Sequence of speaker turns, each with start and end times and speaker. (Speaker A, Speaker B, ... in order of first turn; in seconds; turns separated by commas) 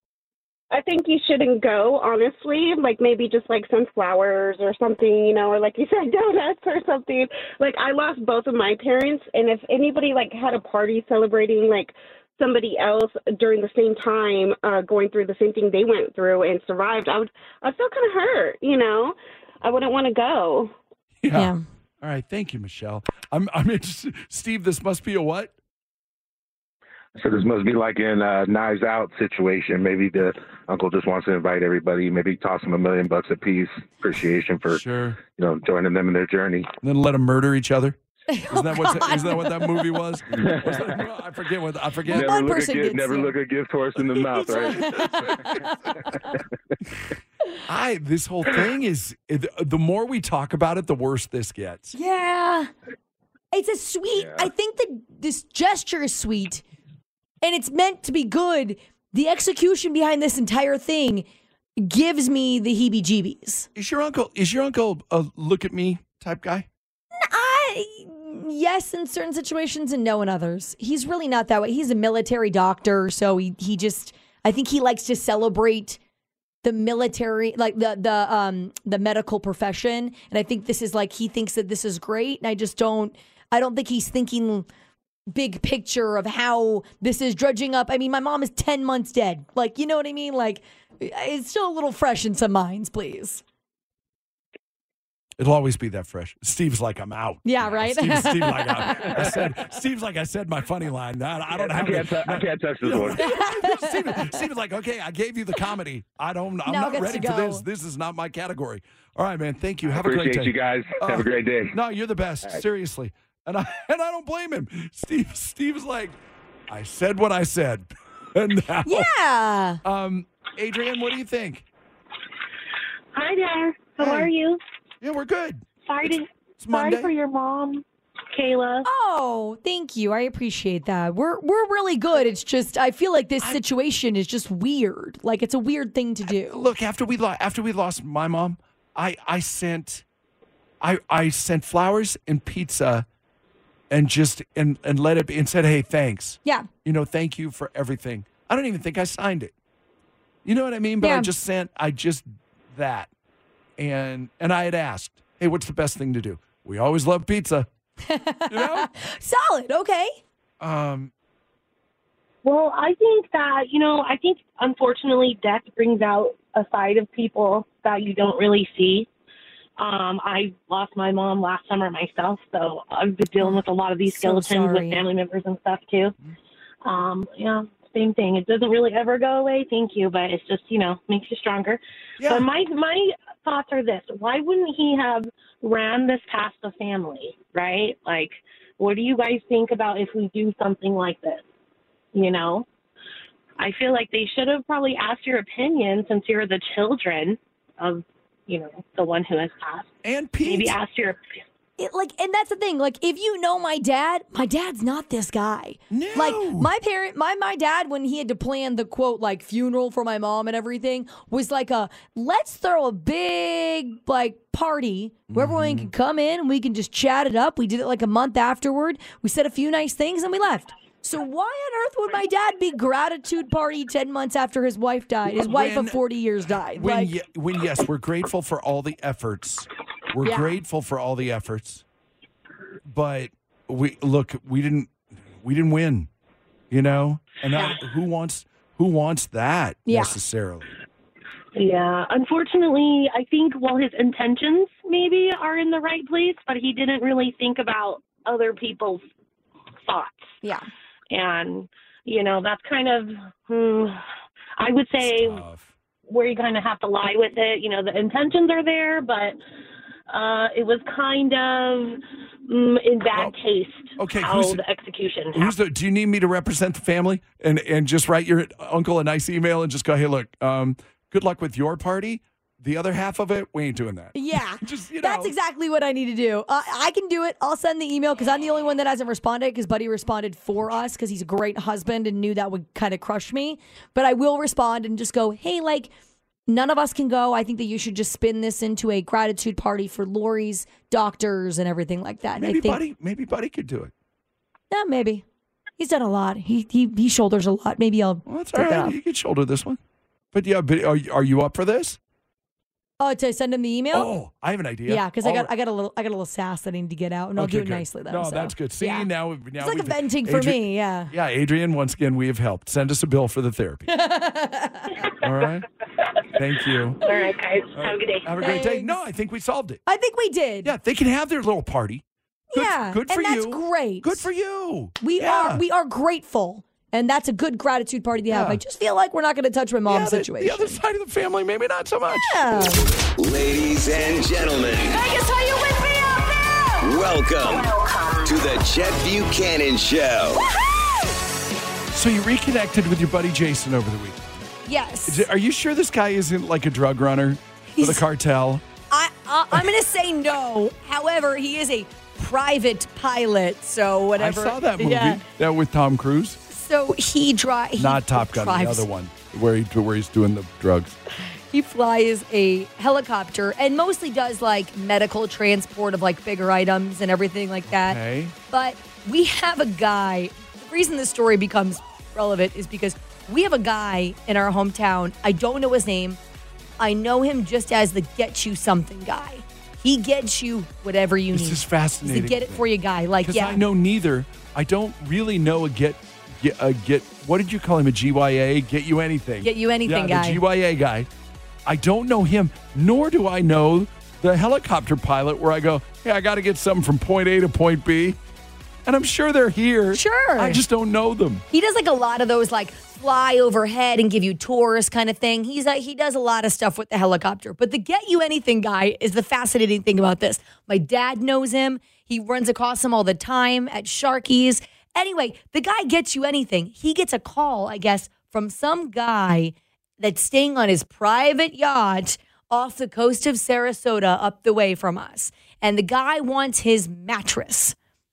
Speaker A: 0.7-20.7, Speaker B: 21.2-25.5, Speaker C: 21.3-21.6, Speaker D: 27.1-36.7, Speaker B: 34.7-35.2, Speaker B: 36.8-38.0, Speaker C: 38.3-39.9, Speaker B: 38.5-42.5, Speaker D: 40.4-41.0, Speaker D: 42.1-45.6, Speaker C: 42.1-43.3, Speaker B: 44.3-45.3, Speaker C: 44.4-45.8, Speaker B: 47.7-51.9, Speaker C: 51.9-52.7, Speaker C: 53.5-56.6, Speaker D: 54.1-54.5, Speaker C: 57.4-61.2, Speaker C: 61.8-63.7, Speaker B: 63.7-66.7, Speaker C: 67.2-76.0, Speaker C: 76.6-84.7, Speaker C: 85.3-93.4, Speaker B: 95.4-116.2, Speaker C: 97.4-99.3, Speaker D: 101.5-103.2, Speaker C: 103.2-104.3, Speaker C: 106.7-107.6, Speaker D: 109.8-111.8, Speaker B: 116.7-119.1, Speaker C: 118.8-119.8, Speaker B: 119.8-121.6, Speaker E: 123.1-124.6, Speaker B: 124.0-124.3, Speaker B: 125.0-127.1, Speaker E: 125.8-128.8, Speaker C: 128.8-136.6, Speaker B: 136.3-140.0, Speaker B: 140.8-143.1, Speaker B: 143.9-149.5, Speaker B: 150.4-153.1, Speaker C: 151.0-151.3, Speaker B: 153.8-157.7, Speaker C: 158.1-160.2, Speaker B: 158.5-158.9, Speaker B: 160.6-161.1, Speaker E: 162.4-169.1, Speaker E: 169.8-176.1, Speaker C: 173.4-175.1, Speaker E: 176.8-191.4, Speaker B: 182.2-182.5, Speaker E: 192.1-192.7, Speaker E: 193.6-201.2, Speaker B: 200.0-200.8, Speaker C: 201.8-227.1, Speaker B: 205.9-206.7, Speaker B: 215.3-215.9, Speaker B: 225.3-226.0, Speaker B: 226.7-231.8, Speaker C: 230.2-230.6, Speaker B: 232.9-236.1, Speaker B: 236.7-240.7, Speaker C: 239.9-240.2, Speaker E: 241.5-249.0, Speaker E: 249.8-250.3, Speaker E: 251.1-254.0, Speaker E: 254.6-255.4, Speaker B: 255.0-255.7, Speaker E: 256.1-259.4, Speaker E: 260.1-265.5, Speaker B: 264.0-264.6, Speaker B: 265.3-275.3, Speaker C: 274.1-285.9, Speaker C: 286.5-292.8, Speaker B: 292.4-293.9, Speaker C: 294.7-295.2, Speaker C: 295.8-298.9, Speaker B: 298.2-299.8, Speaker B: 300.3-302.0, Speaker C: 303.0-304.1, Speaker B: 303.9-305.5, Speaker C: 304.9-311.1, Speaker B: 307.4-313.9, Speaker C: 313.9-315.0, Speaker B: 315.2-315.6, Speaker B: 316.3-317.0, Speaker E: 317.0-318.4, Speaker B: 317.7-319.8, Speaker C: 318.4-318.9, Speaker C: 319.9-320.7, Speaker B: 320.6-325.6, Speaker C: 322.5-324.3, Speaker C: 325.0-330.8, Speaker B: 328.3-328.6, Speaker B: 329.9-332.7, Speaker C: 332.2-332.9, Speaker F: 333.2-335.0, Speaker G: 334.9-336.8, Speaker F: 336.8-337.7, Speaker G: 337.6-338.3, Speaker F: 338.2-340.4, Speaker B: 341.9-344.3, Speaker C: 344.6-345.3, Speaker B: 345.1-348.6, Speaker C: 347.7-348.0, Speaker C: 348.9-355.2, Speaker B: 354.2-356.4, Speaker C: 356.5-358.9, Speaker B: 357.8-361.0, Speaker C: 361.5-376.2, Speaker B: 367.7-368.3, Speaker C: 376.8-383.6, Speaker B: 381.3-382.7, Speaker B: 383.2-391.1, Speaker C: 389.4-390.4, Speaker B: 391.6-398.2, Speaker B: 398.9-401.4, Speaker C: 399.9-400.6, Speaker C: 401.5-427.7